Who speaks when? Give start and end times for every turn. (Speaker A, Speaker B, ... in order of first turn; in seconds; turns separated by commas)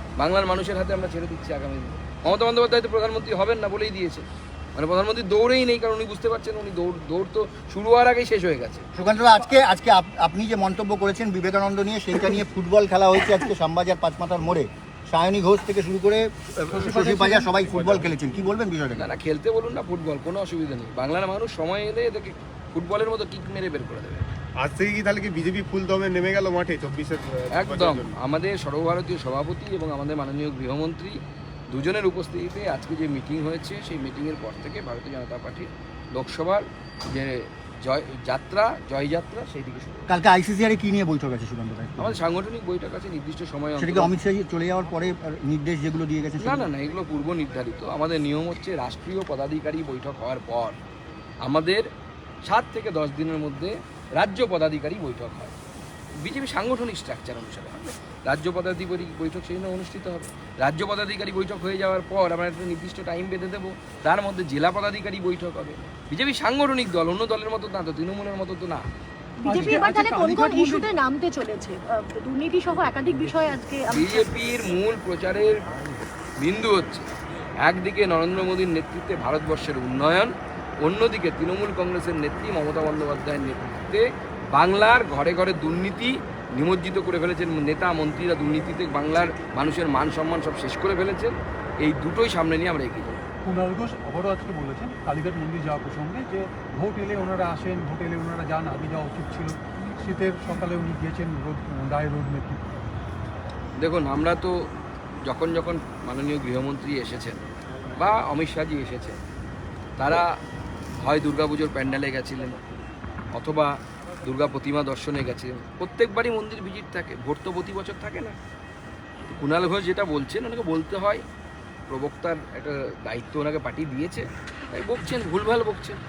Speaker A: 0.2-8.9, Speaker B: 8.9-19.1, Speaker C: 16.7-17.5, Speaker D: 17.6-18.2, Speaker A: 18.9-24.3, Speaker D: 24.6-28.1, Speaker A: 27.5-31.2, Speaker A: 31.7-40.1, Speaker B: 40.1-42.2, Speaker A: 42.0-44.1, Speaker B: 43.8-46.7, Speaker A: 46.4-50.8, Speaker A: 51.4-51.9, Speaker A: 52.5-55.5, Speaker A: 56.2-68.9, Speaker E: 69.4-74.3, Speaker C: 69.5-70.9, Speaker A: 73.9-75.6, Speaker A: 76.4-77.1, Speaker A: 77.6-93.2, Speaker C: 93.4-102.8, Speaker A: 103.8-104.7, Speaker A: 105.2-107.4, Speaker A: 108.0-109.2, Speaker A: 110.0-110.3, Speaker A: 111.0-112.6, Speaker A: 113.4-113.7, Speaker A: 114.2-118.3, Speaker A: 119.3-121.2, Speaker A: 121.9-126.0